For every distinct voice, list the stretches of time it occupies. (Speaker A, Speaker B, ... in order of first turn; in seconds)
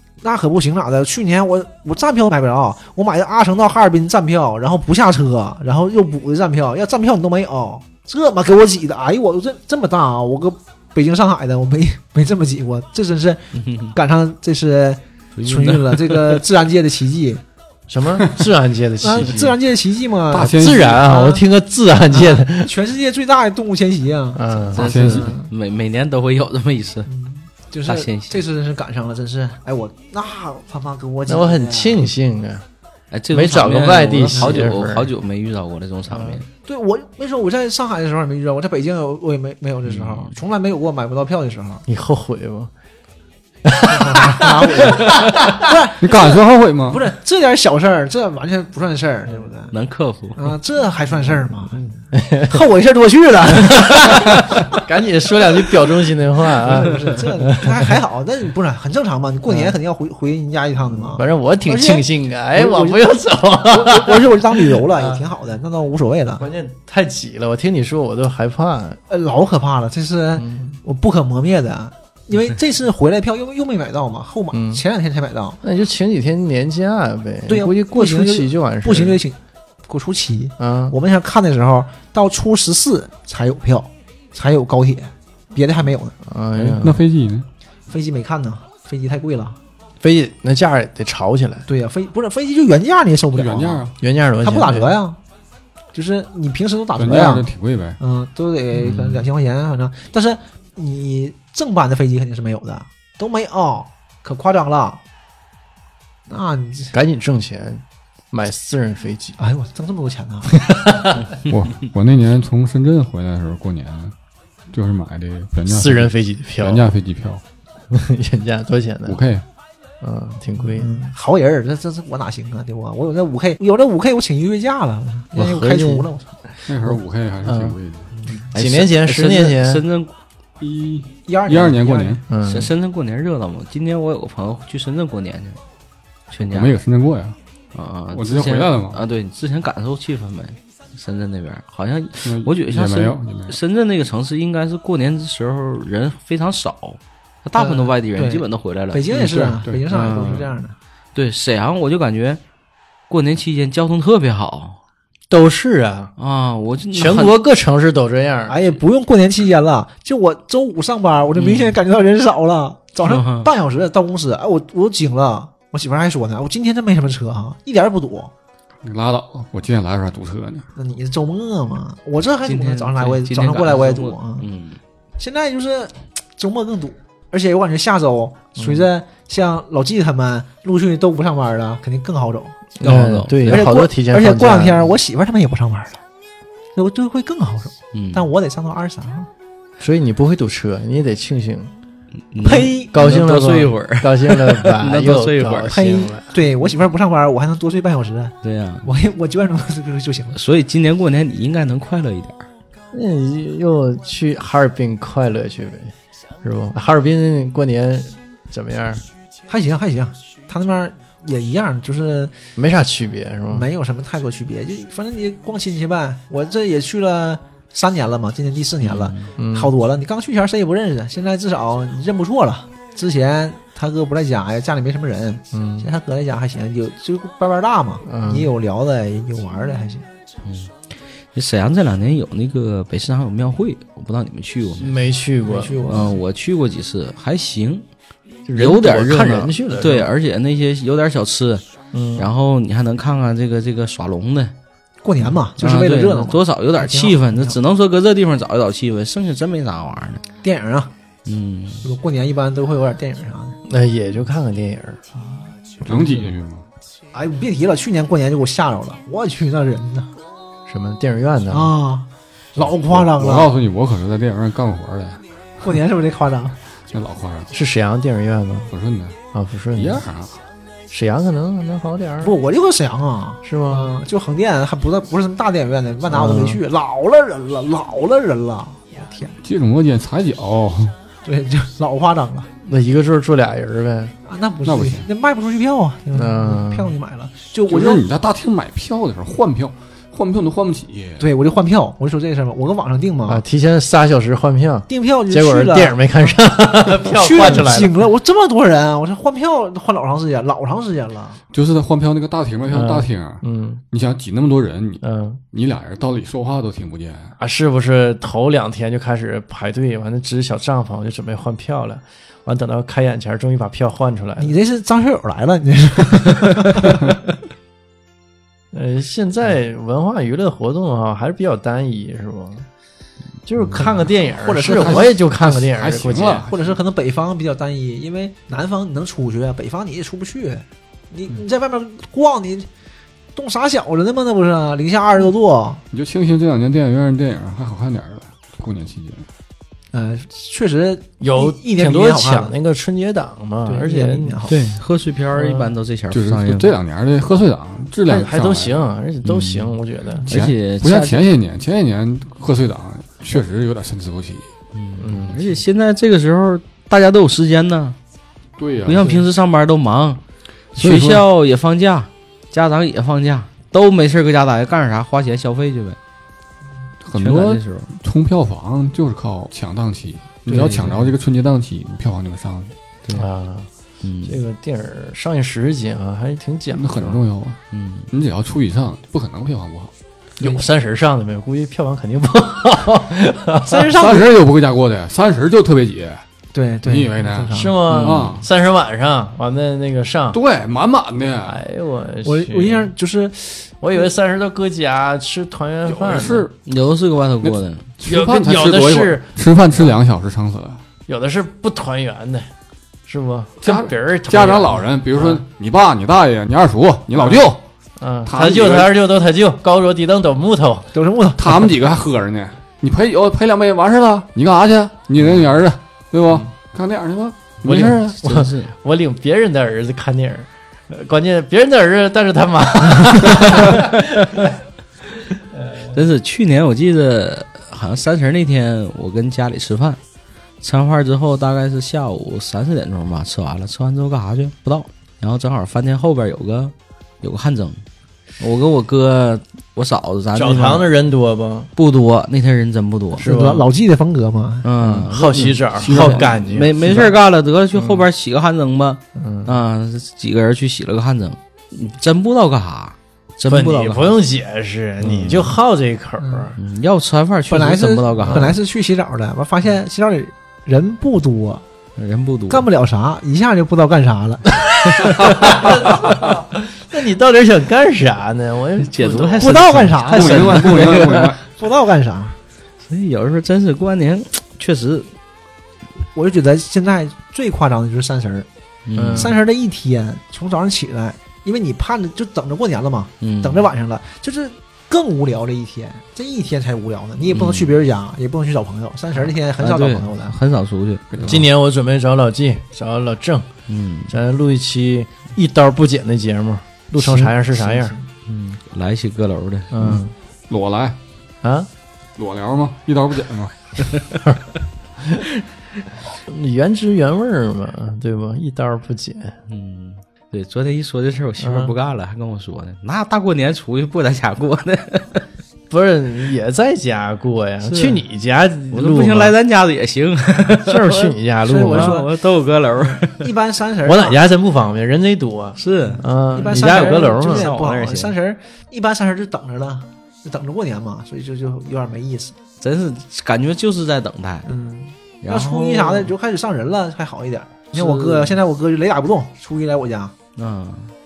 Speaker A: 0.2-17.4, 19.0-21.4, 22.1-25.5, 27.1-32.0, 34.3-34.7, 36.6-41.8, 43.9-46.3, 46.9-49.7, 50.4-54.8, 56.5-66.4, 69.1-75.6, 77.5-86.2, 87.9-89.6, 91.7-93.9, 94.4-95.2, 95.9-97.5, 98.0-105.0, 106.3-106.9, 109.4-110.5, 120.6-126.3, 128.1-128.5, 131.3-132.2, 147.6-150.8, 158.5-168.3, 170.8-174.5, 175.2-182.6, 183.5-186.0, 186.7-189.3, 192.4-192.9, 195.7-200.4, 209.5-212.3, 213.5-230.1, 235.4-236.2, 245.0-247.6, 250.4-250.9, 251.8-253.6, 255.1-255.9, 257.1-260.1, 261.5-263.5, 265.6-266.6, 272.2-279.4, 281.2-282.5, 284.2-288.0, 291.2-293.4, 294.9-296.3, 296.9-301.4, 314.4-317.1, 323.8-325.2, 326.5-332.7, 333.3-335.8, 339.9-342.5, 343.6-344.8, 370.5-371.0, 383.6-384.3, 386.5-387.8, 392.2-394.0, 410.9-411.7, 443.2-444.7, 456.2-456.5, 457.5-461.6, 462.5-465.6, 469.4-472.4, 476.1-478.5, 479.1-490.4, 497.0-498.1, 521.4-522.1, 522.9-524.2, 525.9-532.4, 534.5-540.1
Speaker B: 13.5-13.9, 15.4-16.4, 24.7-27.1, 27.9-28.4, 33.1-36.5, 39.9-40.3, 49.7-50.5, 98.8-99.2, 128.5-130.1, 132.4-135.6, 136.3-136.7, 137.7-149.1, 149.9-150.5, 151.1-152.4, 153.1-154.8, 156.2-157.3, 161.3-161.8, 163.0-163.5, 172.4-174.8, 182.8-183.7, 187.9-188.3, 192.3-195.8, 198.4-198.9, 200.3-202.4, 218.8-219.3, 230.4-234.9, 235.9-237.8, 238.5-241.6, 242.2-244.5, 245.6-250.2, 251.2-251.8, 344.5-346.8, 349.2-351.2, 354.7-357.9, 358.8-360.2, 360.7-366.0, 367.1-367.9, 370.5-371.1, 374.0-374.4, 377.7-378.1, 387.9-388.4, 396.6-397.9, 418.2-418.7, 425.9-430.0, 430.6-437.8, 438.4-440.9, 441.8-443.3, 444.6-454.2, 455.0-455.5, 456.6-458.6, 462.0-462.7, 464.9-465.8, 468.8-471.3, 472.8-475.1, 478.9-479.4, 483.2-483.6, 487.3-487.8, 489.6-491.4, 493.7-494.1, 498.2-500.0, 509.5-515.2, 517.6-518.0, 518.7-521.1, 521.6-523.3, 525.6-528.1, 532.6-534.5, 535.2-536.1, 537.7-538.4, 540.4-540.9
Speaker C: 17.9-19.6, 20.4-22.7, 24.3-24.9, 31.3-32.6, 33.3-35.1, 36.1-36.4, 41.9-42.7, 43.6-45.7, 52.1-52.6, 53.5-58.0, 59.5-59.8, 60.9-65.2, 66.4-69.0, 70.3-70.8, 74.5-74.8, 75.6-79.2, 80.6-80.9, 86.2-87.0, 90.0-91.7, 94.0-95.0, 106.9-109.4, 110.5-111.2, 115.7-116.9, 117.9-119.2, 120.0-120.9, 125.3-126.1, 126.7-127.8, 128.5-129.8, 132.3-132.7, 155.3-156.1, 156.9-158.6, 182.8-184.9, 189.8-191.7, 192.9-196.3, 202.9-209.0, 212.6-213.7, 219.4-219.7, 225.5-225.9, 228.0-228.5, 234.8-235.8, 238.4-240.1, 241.9-242.3, 253.6-255.0, 260.7-261.7, 267.5-268.7, 269.3-270.0, 270.9-272.3, 273.4-273.9, 276.1-276.6, 282.6-284.1, 286.1-286.9, 293.2-298.0, 302.7-303.8, 305.0-305.4, 307.4-314.6, 318.7-322.6, 323.4-326.5, 341.2-344.4, 345.3-345.7, 348.1-350.3, 355.0-355.6, 373.1-373.7, 374.2-377.2, 380.4-384.0, 387.5-390.4, 391.4-392.9, 393.8-396.5, 398.0-399.9, 401.1-402.5, 403.1-405.4, 407.1-407.4, 408.0-410.9, 417.6-424.5, 425.5-426.0, 440.3-441.7, 443.1-443.6, 444.8-447.2, 447.7-448.0, 449.1-449.6, 453.5-456.6, 458.2-458.5, 465.1-470.9, 478.9-479.4, 491.2-493.5, 494.1-497.9, 499.7-500.1, 501.4-501.7, 505.0-505.2, 506.2-509.3, 511.4-511.7, 515.7-519.3, 520.5-522.0, 523.8-527.5
Speaker D: 20.3-21.0, 24.8-25.3, 46.0-47.0, 86.6-87.5, 93.3-93.9, 97.0-98.0, 111.4-114.1, 114.7-117.4, 119.0-119.4, 126.7-128.1, 130.6-132.2, 136.4-137.3, 138.1-139.0, 142.2-143.6, 149.1-149.8, 168.8-170.7, 255.8-256.6, 262.6-265.2, 266.9-267.5, 268.7-269.2, 269.7-270.4, 279.4-280.9, 284.6-285.1, 287.7-291.3, 301.5-307.3, 324.7-326.7, 335.9-339.3, 346.1-348.7, 350.3-354.5, 358.6-359.2, 360.8-361.2, 367.0-372.7, 376.7-377.6, 378.1-379.9, 384.0-386.2, 386.8-388.4, 390.3-391.6, 395.9-396.5, 397.4-400.8, 403.6-407.6, 408.2-408.9, 411.4-418.1, 445.8-446.3, 470.1-471.4, 491.1-491.4, 500.5-501.0, 502.1-503.6